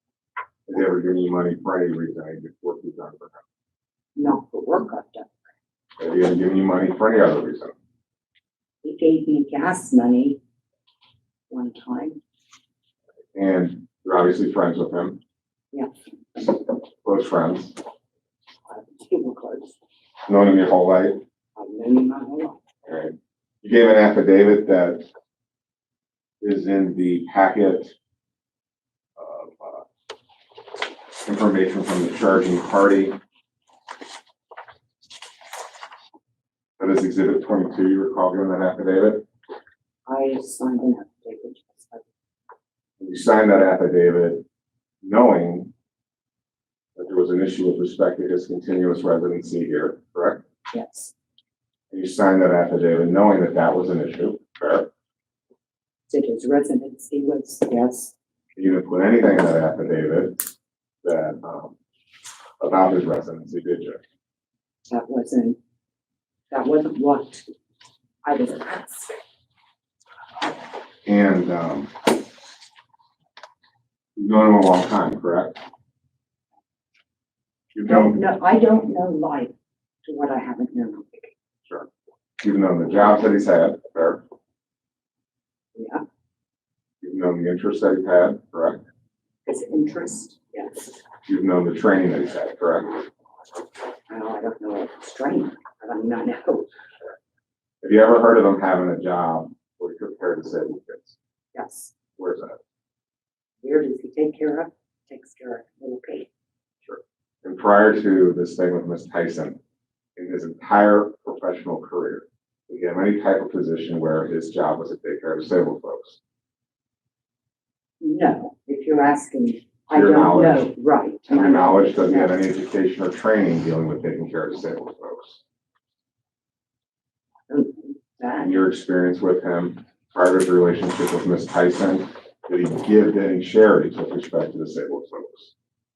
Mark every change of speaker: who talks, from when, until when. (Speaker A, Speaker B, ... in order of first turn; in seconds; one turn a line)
Speaker A: 0.7-3.4
Speaker B: 4.2-5.4
Speaker A: 6.0-7.7
Speaker B: 8.8-10.4
Speaker B: 11.5-12.2
Speaker A: 13.3-15.2
Speaker B: 15.7-16.4
Speaker A: 17.0-17.8
Speaker B: 18.7-19.8
Speaker A: 20.3-21.2
Speaker B: 21.6-22.6
Speaker A: 22.9-25.0
Speaker A: 26.4-27.9
Speaker A: 29.2-29.9
Speaker A: 31.2-33.2
Speaker A: 36.8-39.2
Speaker B: 40.0-42.0
Speaker A: 43.0-44.4
Speaker A: 45.0-45.7
Speaker A: 47.0-50.4
Speaker B: 50.7-51.1
Speaker A: 51.9-54.9
Speaker B: 56.1-58.1
Speaker A: 58.5-60.4
Speaker A: 61.0-61.8
Speaker A: 62.6-64.0
Speaker B: 64.9-65.6
Speaker B: 66.5-67.5
Speaker B: 68.2-69.2
Speaker A: 71.0-71.9
Speaker A: 74.2-75.6
Speaker A: 77.7-78.2
Speaker B: 77.8-79.5
Speaker B: 80.0-81.3
Speaker A: 82.4-84.2
Speaker B: 85.7-86.0
Speaker A: 87.0-88.8
Speaker B: 89.5-90.9
Speaker A: 91.2-93.0
Speaker B: 94.1-96.7
Speaker A: 97.8-101.2
Speaker B: 101.5-101.9
Speaker A: 102.2-102.6
Speaker B: 103.6-106.3
Speaker A: 106.8-109.6
Speaker A: 110.2-116.2
Speaker B: 118.0-122.4
Speaker A: 119.9-120.7
Speaker A: 121.3-125.4
Speaker B: 127.5-128.6
Speaker A: 128.4-135.5